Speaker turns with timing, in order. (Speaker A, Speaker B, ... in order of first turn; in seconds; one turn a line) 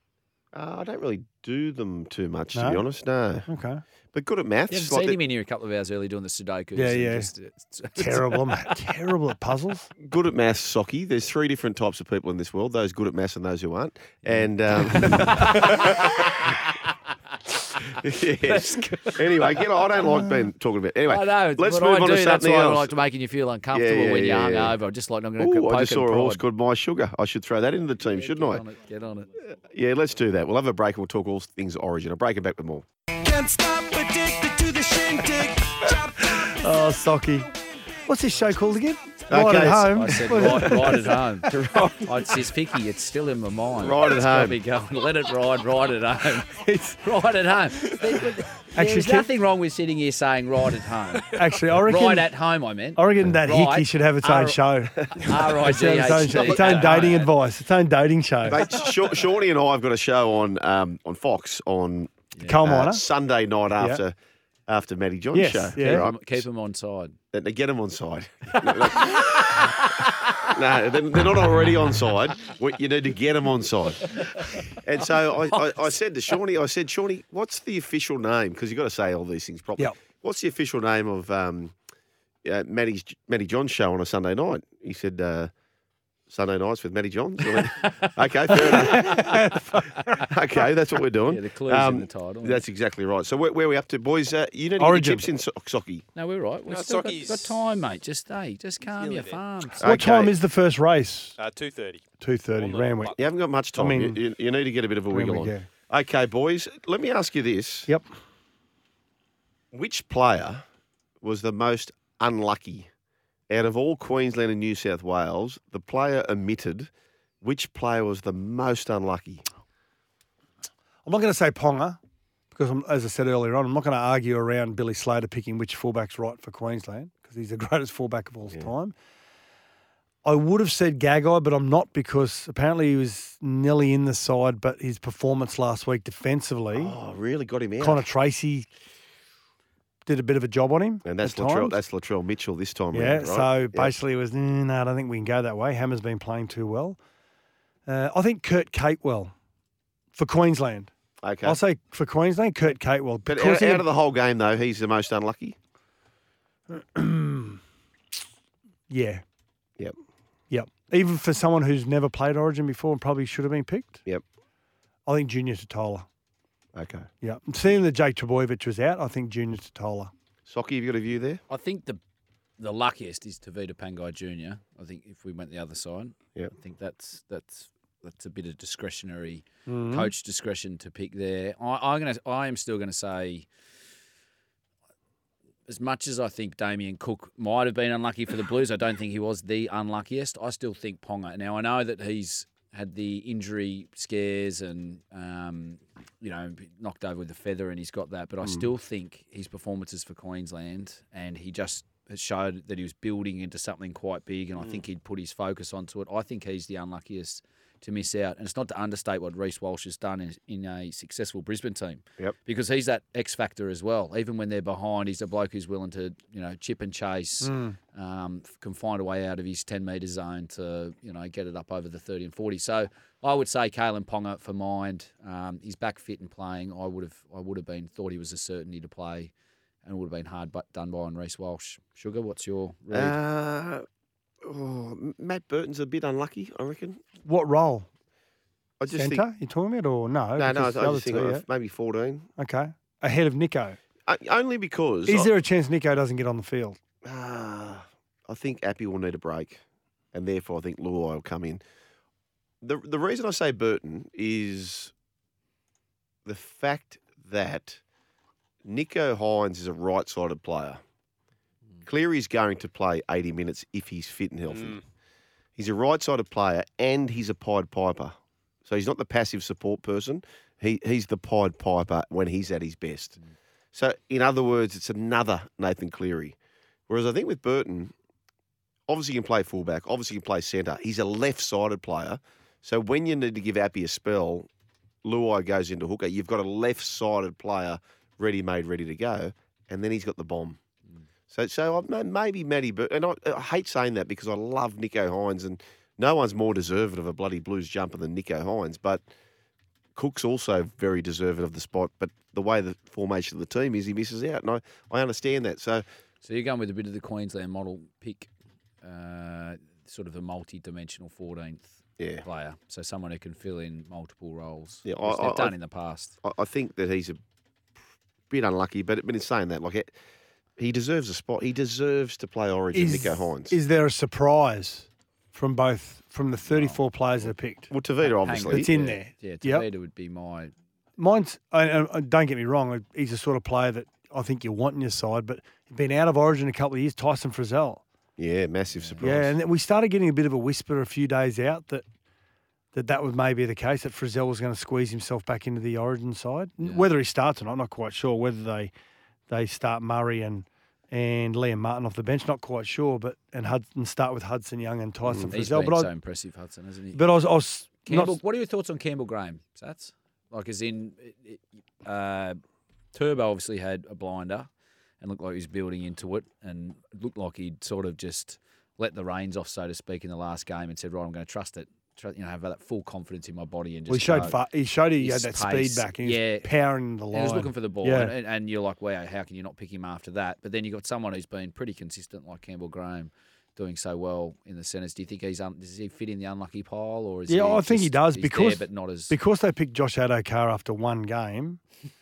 Speaker A: 0.5-3.5
Speaker B: 2.5-2.8
Speaker B: 3.5-3.8
Speaker A: 4.1-5.2
Speaker C: 4.7-8.4
Speaker B: 6.8-7.3
Speaker B: 8.0-9.9
Speaker A: 10.0-16.6
Speaker C: 14.2-16.9
Speaker C: 17.8-20.1
Speaker A: 17.9-22.9
Speaker C: 21.1-26.4
Speaker A: 23.7-24.8
Speaker A: 25.4-28.6
Speaker C: 28.0-29.4
Speaker A: 29.4-32.9
Speaker D: 33.1-36.5
Speaker B: 36.2-37.5
Speaker B: 38.1-41.7
Speaker A: 39.3-42.3
Speaker C: 39.6-41.5
Speaker C: 42.0-57.3
Speaker A: 43.8-44.6
Speaker B: 46.5-47.0
Speaker B: 48.7-49.3
Speaker B: 51.3-52.3
Speaker B: 53.0-58.6
Speaker A: 55.0-55.3
Speaker A: 56.3-57.1
Speaker A: 58.5-64.1
Speaker B: 62.5-63.0
Speaker A: 64.7-66.4
Speaker B: 65.3-66.0
Speaker C: 65.8-67.2
Speaker A: 67.3-74.2
Speaker C: 68.5-70.5
Speaker C: 74.2-74.8
Speaker A: 74.7-81.7
Speaker C: 75.5-75.9
Speaker A: 82.4-85.5
Speaker A: 86.3-89.6
Speaker C: 87.7-89.3
Speaker B: 88.7-89.8
Speaker C: 90.0-90.2
Speaker A: 90.2-96.0
Speaker C: 91.2-92.6
Speaker B: 94.8-95.2
Speaker C: 96.1-99.9
Speaker E: 96.7-97.5
Speaker E: 98.8-99.4
Speaker A: 99.8-100.4
Speaker B: 99.8-101.3
Speaker E: 101.4-102.0
Speaker B: 102.2-103.1
Speaker E: 102.5-103.2
Speaker A: 103.2-107.9
Speaker B: 103.8-104.2
Speaker B: 105.1-105.7
Speaker A: 109.7-110.6
Speaker A: 111.2-112.9
Speaker A: 113.5-116.9
Speaker A: 117.4-119.4
Speaker B: 121.0-122.0
Speaker B: 122.5-128.9
Speaker B: 130.2-136.9
Speaker A: 136.7-138.0
Speaker B: 137.8-138.7
Speaker B: 140.1-141.7
Speaker A: 141.0-143.9
Speaker B: 142.9-147.0
Speaker B: 147.9-149.3
Speaker B: 150.1-150.9
Speaker A: 151.2-151.6
Speaker B: 151.4-153.8
Speaker A: 153.2-155.6
Speaker B: 156.7-157.6
Speaker B: 158.9-159.2
Speaker B: 160.5-164.0
Speaker B: 165.1-166.1
Speaker A: 166.7-167.1
Speaker B: 167.2-170.1
Speaker A: 170.5-171.4
Speaker C: 171.5-172.0
Speaker C: 172.6-183.5
Speaker B: 179.7-180.1
Speaker C: 185.7-229.3
Speaker B: 217.4-217.8
Speaker C: 229.8-233.2
Speaker A: 232.9-233.8
Speaker A: 234.4-237.0
Speaker B: 237.2-237.9
Speaker A: 238.8-239.2
Speaker B: 238.9-241.4
Speaker A: 240.4-242.3
Speaker B: 242.4-243.8
Speaker A: 244.1-245.3
Speaker B: 245.1-246.8
Speaker A: 247.0-249.6
Speaker A: 250.1-251.6
Speaker A: 252.6-254.9
Speaker A: 256.2-257.8
Speaker A: 258.6-260.8
Speaker A: 261.8-264.8
Speaker E: 264.5-264.8
Speaker A: 265.6-273.2
Speaker A: 273.7-276.4
Speaker A: 276.9-277.9
Speaker A: 278.9-284.5
Speaker A: 285.0-290.6
Speaker A: 291.3-299.0
Speaker A: 299.9-305.8
Speaker C: 306.2-308.3
Speaker C: 308.8-316.1
Speaker A: 312.0-312.2
Speaker A: 314.8-315.6
Speaker A: 316.2-317.2
Speaker A: 318.3-319.9
Speaker A: 320.6-323.6
Speaker B: 322.7-327.7
Speaker C: 326.5-326.8
Speaker A: 327.3-328.7
Speaker C: 328.0-330.5
Speaker B: 328.5-329.7
Speaker B: 331.0-337.8
Speaker A: 338.2-339.4
Speaker C: 338.7-339.0
Speaker B: 339.0-341.8
Speaker B: 342.7-348.7
Speaker C: 346.6-346.9
Speaker B: 349.3-355.9
Speaker A: 355.0-355.3
Speaker C: 355.3-357.0
Speaker B: 356.9-358.2
Speaker C: 357.8-362.4
Speaker C: 362.9-364.5
Speaker C: 365.0-374.4
Speaker B: 373.9-378.1
Speaker C: 375.0-376.5
Speaker C: 377.1-389.1
Speaker B: 387.3-391.6